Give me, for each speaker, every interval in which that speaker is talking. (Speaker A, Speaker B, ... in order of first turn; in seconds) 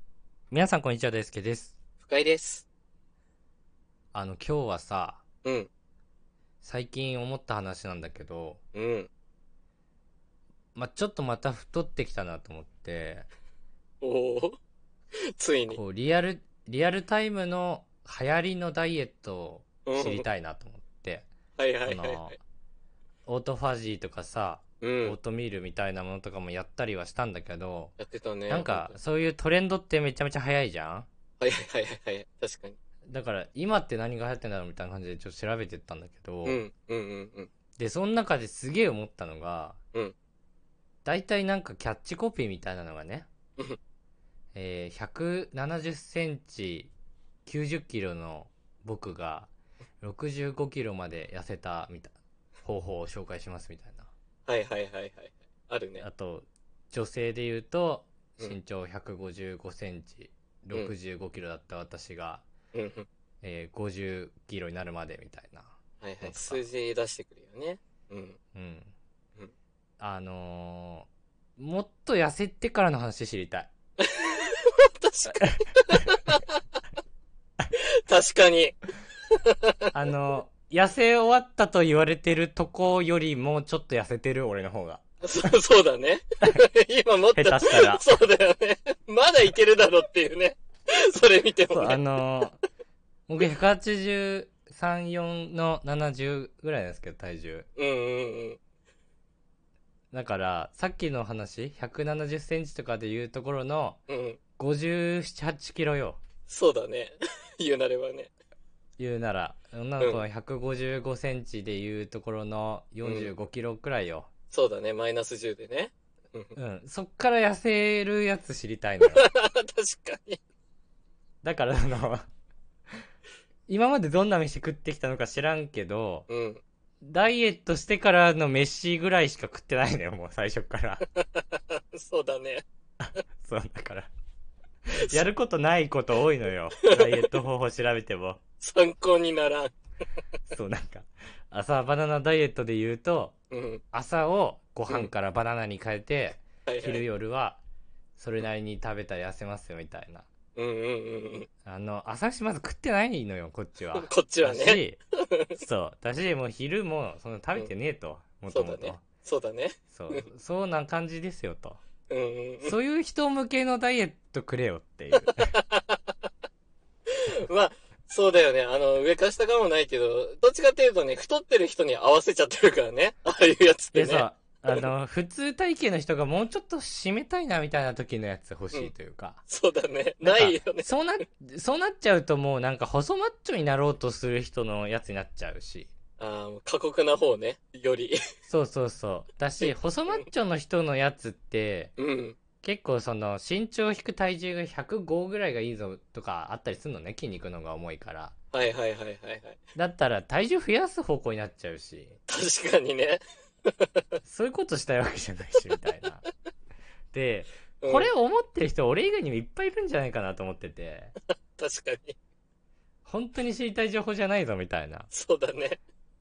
Speaker A: 0.5-1.8, 4.1-5.2, 6.6-8.6, 10.8-13.3, 15.7-21.3, 21.9-22.4, 23.3-28.0, 28.5-31.1, 33.1-36.6, 37.8-39.8, 41.0-43.3, 44.5-46.9, 47.5-49.5, 50.0-54.1, 56.0-62.5, 63.4-66.7, 68.5-68.9, 70.0-73.7, 79.9-85.0, 87.4-88.1, 91.7-92.6, 93.3-97.7, 100.1-104.0, 104.6-106.2, 109.0-114.3, 116.6-119.3, 121.4-122.3, 123.7-126.3, 127.0-131.0, 133.4-134.1, 134.9-138.4, 140.5-143.4, 143.9-147.6, 148.2-150.3, 151.7-155.0, 155.6-159.0, 159.9-161.8, 162.6-165.5, 173.9-179.4, 180.2-185.9, 188.5-191.9, 192.6-198.3, 199.8-202.2, 204.2-206.2, 207.1-211.1, 213.1-215.1
Speaker B: 2.0-2.7, 5.4-5.7, 8.7-9.1, 14.0-14.6, 15.4-15.8, 19.9-20.3, 21.6-22.4, 24.8-25.2, 28.0-29.0, 31.4-32.8, 36.5-37.5, 54.5-56.1, 62.7-63.1, 66.0-68.4, 74.0-76.5, 77.7-78.8, 79.3-79.8, 85.2-92.0, 97.8-98.6, 104.1-104.4, 106.5-108.3, 113.0-113.3, 114.5-116.5, 119.1-120.4, 126.3-126.6, 131.2-132.6, 138.6-139.7, 143.5-143.8, 146.7-147.0, 150.6-151.5, 153.9-155.5, 158.5-160.2, 162.1-162.8, 165.2-166.0, 167.1-174.8, 179.5-180.9, 186.2-188.2, 189.6-190.2, 192.0-192.4, 198.5-199.6, 202.3-204.0, 207.8-208.1, 211.6-212.2, 215.1-215.8